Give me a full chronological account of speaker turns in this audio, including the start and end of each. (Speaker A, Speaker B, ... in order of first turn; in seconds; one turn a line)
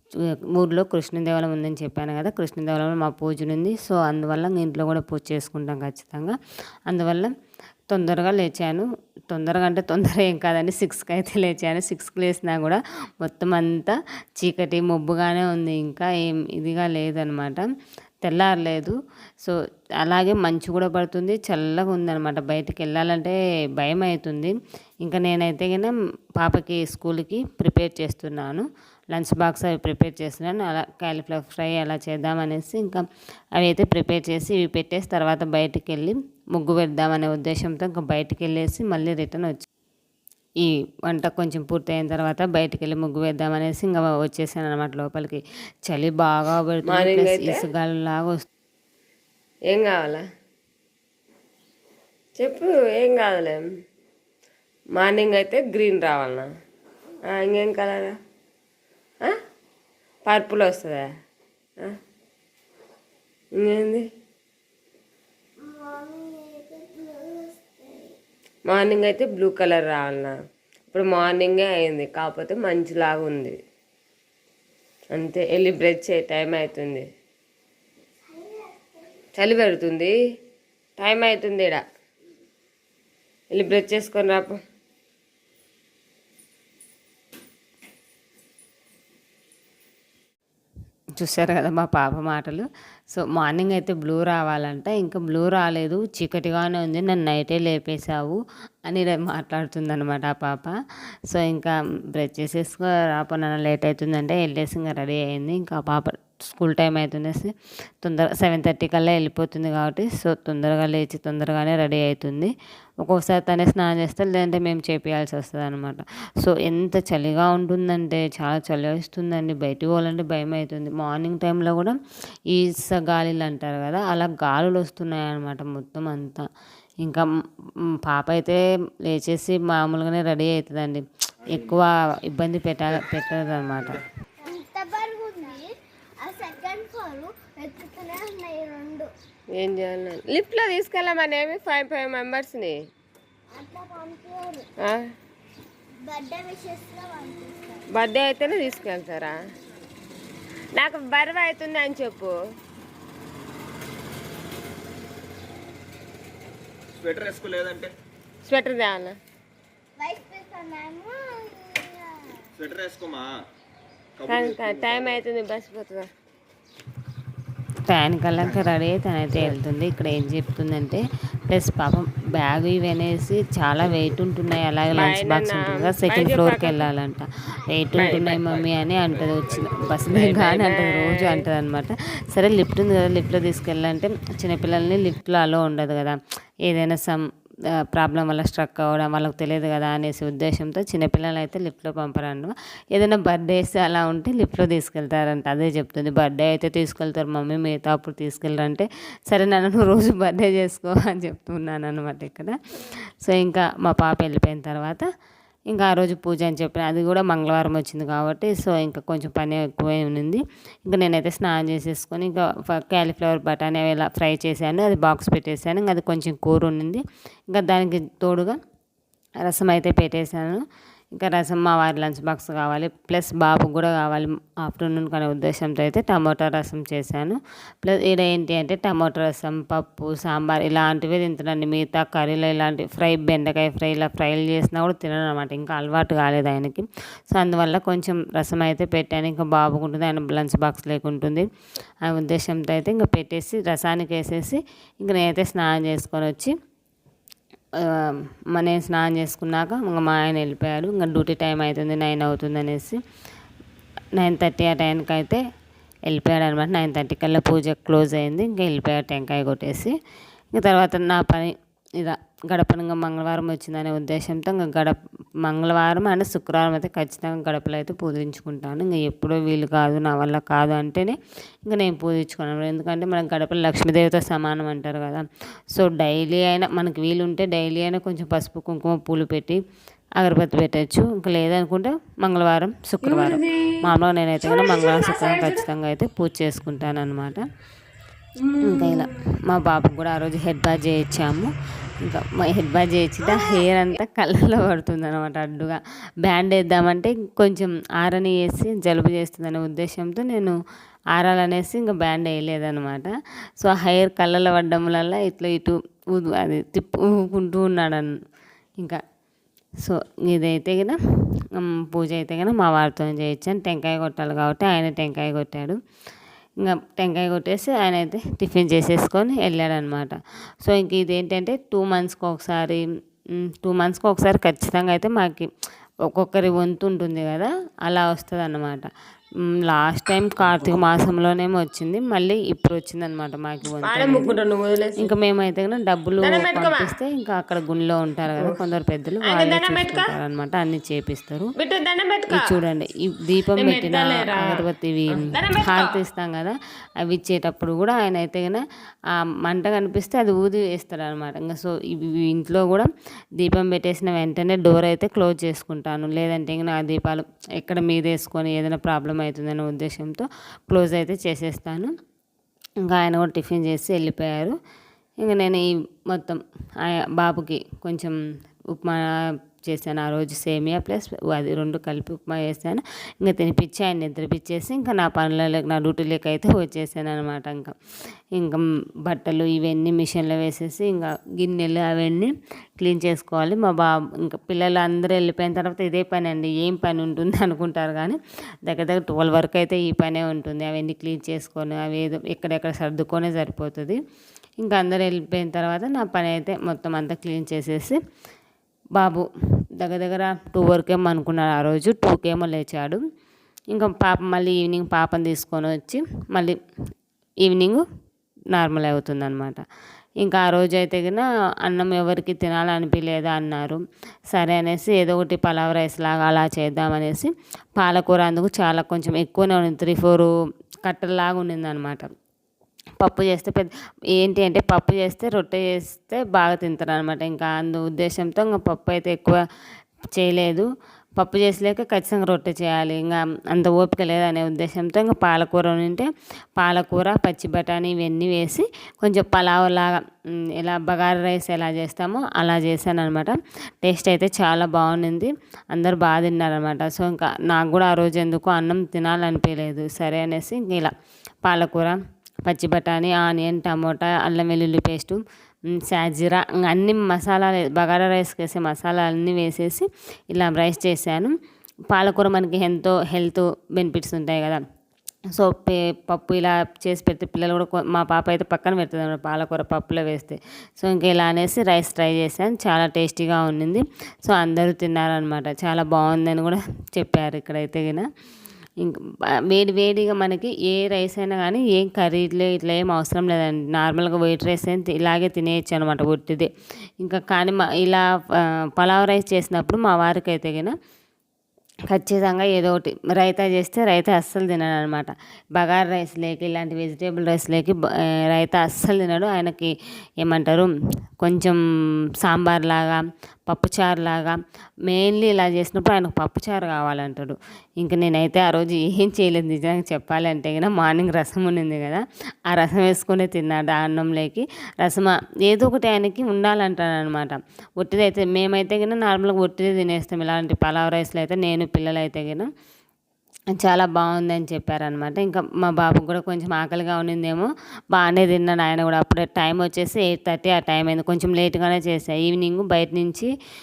Speaker A: 0.2-7.3
Speaker A: 7.9-17.7
Speaker A: 18.2-33.0
Speaker A: 33.6-39.7
Speaker A: 40.6-48.5
Speaker B: 46.8-47.6
Speaker B: 49.7-50.2
Speaker B: 52.4-53.6
Speaker B: 55.0-56.5
Speaker B: 57.3-58.2
Speaker B: 60.2-61.1
Speaker B: 63.5-64.1
Speaker C: 65.6-68.0
Speaker B: 68.7-70.4
Speaker B: 70.9-73.6
Speaker B: 75.1-77.1
Speaker B: 79.3-80.2
Speaker B: 81.0-81.8
Speaker B: 83.5-84.6
Speaker A: 91.2-100.8
Speaker A: 101.3-126.5
Speaker A: 127.9-134.0
Speaker C: 134.4-139.1
Speaker B: 139.5-142.8
Speaker C: 143.5-144.7
Speaker B: 144.8-145.1
Speaker C: 146.0-147.9
Speaker B: 147.9-149.4
Speaker B: 150.7-152.3
Speaker D: 157.0-157.9
Speaker B: 158.4-159.2
Speaker C: 160.0-162.5
Speaker D: 162.6-163.4
Speaker D: 164.2-165.0
Speaker B: 164.2-166.1
Speaker A: 167.9-187.2
Speaker B: 174.9-176.9
Speaker B: 177.9-178.5
Speaker B: 180.1-181.4
Speaker A: 187.8-205.0
Speaker A: 205.7-218.6
Speaker A: 219.4-220.6
Speaker A: 221.1-241.4
Speaker A: 242.0-246.5
Speaker A: 247.8-253.0
Speaker A: 254.2-255.4
Speaker A: 256.1-259.9
Speaker A: 260.5-279.6
Speaker A: 280.2-287.4
Speaker B: 283.0-285.7
Speaker B: 288.4-289.1
Speaker A: 288.6-300.6
Speaker B: 293.2-293.8
Speaker A: 301.1-308.1
Speaker A: 309.8-315.8
Speaker A: 316.6-322.8
Speaker A: 323.4-325.5
Speaker A: 326.1-328.9
Speaker A: 329.4-334.3
Speaker B: 333.8-335.1
Speaker A: 335.0-341.5
Speaker B: 336.2-336.9
Speaker B: 339.2-340.1
Speaker B: 341.6-342.5
Speaker A: 342.3-348.6
Speaker B: 343.6-346.0
Speaker A: 349.1-361.9
Speaker A: 362.9-364.6
Speaker A: 365.2-368.2
Speaker A: 368.7-377.8
Speaker A: 378.4-394.0
Speaker A: 394.6-398.0
Speaker A: 399.0-403.0
Speaker A: 403.7-406.6
Speaker A: 407.4-407.8
Speaker A: 408.5-409.6
Speaker A: 410.2-413.8
Speaker A: 414.3-420.3
Speaker A: 420.8-422.1
Speaker A: 423.0-429.4
Speaker A: 430.1-440.0
Speaker A: 440.5-450.9
Speaker A: 451.4-455.2
Speaker A: 455.7-461.3
Speaker A: 461.9-464.6
Speaker A: 465.3-478.1
Speaker A: 479.5-486.5
Speaker A: 487.0-490.7
Speaker A: 491.9-501.6
Speaker A: 502.2-522.5
Speaker A: 523.5-533.3